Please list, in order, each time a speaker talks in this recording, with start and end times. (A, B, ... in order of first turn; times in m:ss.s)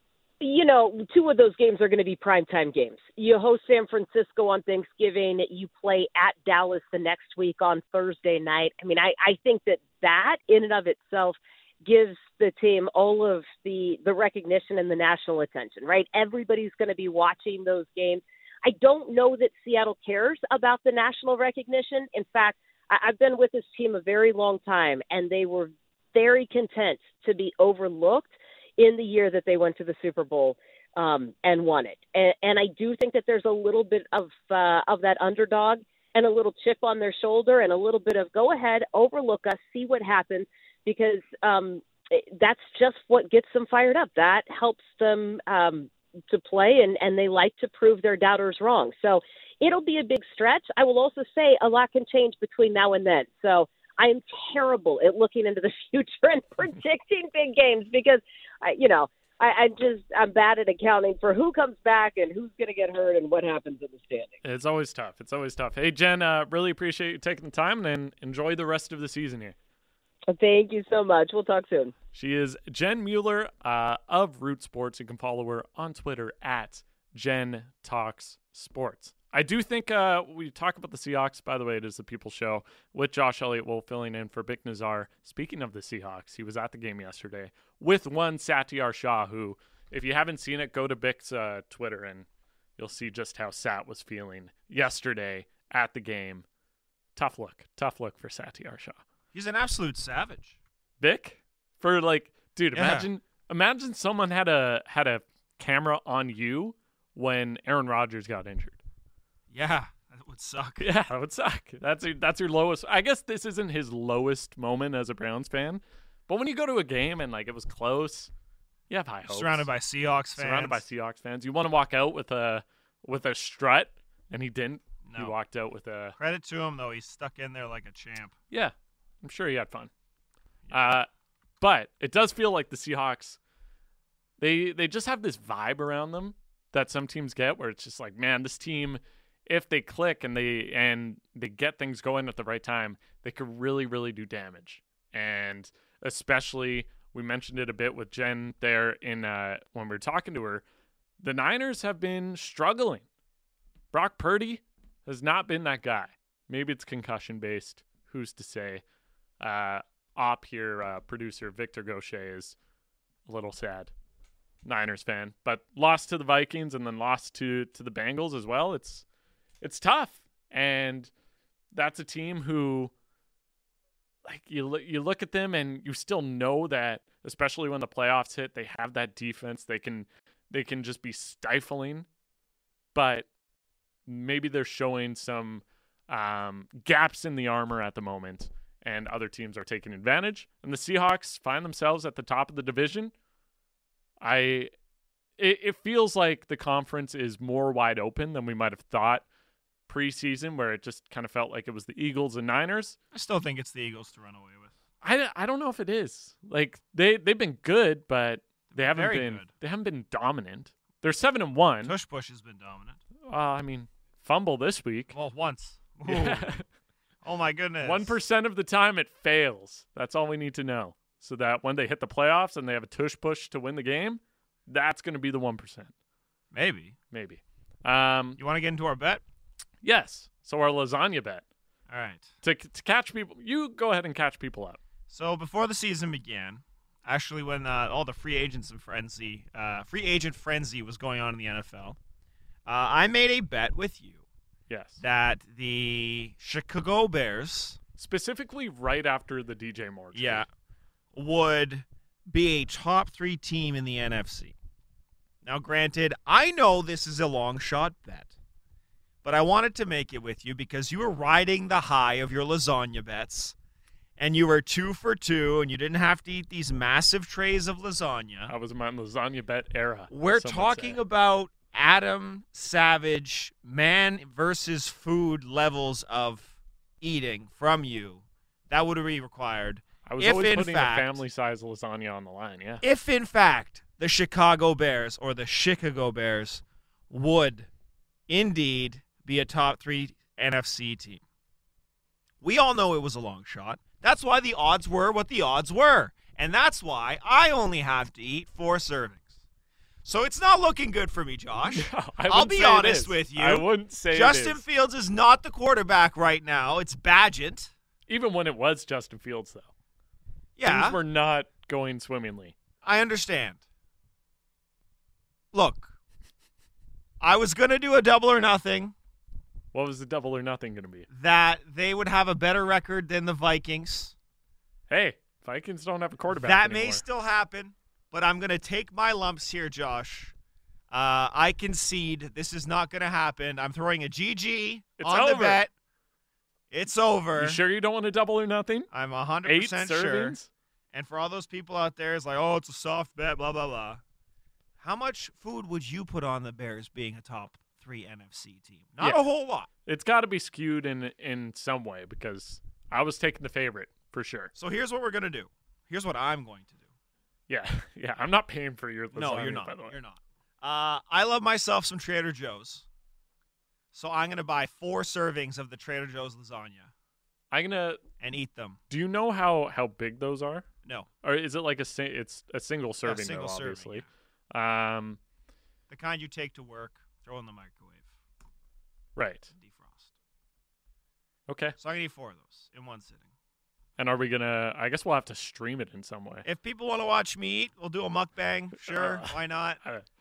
0:00.4-1:04.4 A
1:04.4-1:09.6 B
1:10.3-1:11.9 A
1:12.1-1:32.3 B
1:32.8-1:36.4 B
1:37.2-1:39.0 B
1:39.3-1:40.6 C
1:41.0-1:48.8 B
1:42.7-1:43.1 C
1:49.5-1:50.9 C
1:50.8-1:58.3 B
1:58.9-1:59.7 B
1:59.3-2:00.8 C
2:00.4-2:06.2 B
2:05.0-2:05.3 C
2:06.2-2:08.4 C
2:08.5-2:09.9 B
2:10.7-2:11.0 C
2:10.7-2:11.1 B
2:11.6-2:13.4 B
2:14.4-2:30.6 B
2:31.2-2:33.0 B
2:33.9-2:38.8 B
2:39.4-2:42.6 B
2:43.3-2:43.9 B
2:44.6-2:49.0 B
2:49.6-2:51.1 B
2:51.7-2:52.9 B
2:54.2-3:02.1 B
3:02.9-3:03.3 B
3:04.1-3:13.1 B
3:14.2-3:14.7 B
3:15.4-3:19.2 B
3:19.9-3:23.0 B
3:23.1-3:24.7 C
3:25.0-3:32.0 B
3:28.7-3:29.5 C
3:31.8-3:33.0 C
3:33.3-3:35.2 B
3:35.1-3:36.6 C
3:36.1-3:36.6 B
3:37.2-3:38.2 C
3:37.8-3:45.9 B
3:46.5-3:47.0 C
3:47.1-3:48.4 B
3:48.4-3:49.2 C
3:49.8-3:51.4 B
3:51.9-3:52.3 C
3:52.4-3:54.8 B
3:55.1-4:02.0 C
4:02.7-4:04.2 C
4:04.7-4:05.0 B
4:05.0-4:07.8 C
4:08.0-4:10.5 B
4:10.1-4:10.5 C
4:11.1-4:14.6 C
4:15.4-4:18.3 C
4:19.2-4:23.6 C
4:24.2-4:28.5 C
4:28.5-4:31.0 B
4:30.1-4:41.2 C
4:40.1-4:42.8 B
4:42.8-4:47.7 C
4:48.3-4:51.2 C
4:52.4-4:59.3 C
5:00.0-5:07.7 C
5:01.7-5:04.6 B
5:08.1-5:09.7 B
5:10.6-5:11.0 C
5:10.6-5:12.6 B
5:12.8-5:13.6 C
5:15.5-5:15.9 C
5:17.2-5:18.9 C
5:19.7-5:21.1 B
5:21.1-5:24.2 C
5:24.9-5:27.0 B
5:26.3-5:30.3 C
5:30.9-5:35.7 C
5:35.0-5:35.6 B
5:36.7-5:37.6 C
5:37.4-5:38.9 B
5:38.9-5:40.4 C
5:39.4-5:40.5 B
5:40.9-5:44.0 C
5:44.8-5:49.7 C
5:49.0-5:49.2 B
5:49.9-5:54.5 B
5:54.6-5:56.9 C
5:57.5-6:00.0 B
5:59.1-6:02.9 C
6:03.9-6:06.9 C
6:07.5-6:08.0 B
6:08.2-6:08.8 C
6:08.9-6:10.7 B
6:11.2-6:15.2 B
6:13.0-6:14.1 C
6:15.9-6:18.1 C
6:19.2-6:19.5 B
6:19.5-6:20.1 C
6:21.5-6:21.8 B
6:21.8-6:23.3 C
6:24.0-6:26.5 B
6:26.4-6:29.8 C
6:28.9-6:30.0 B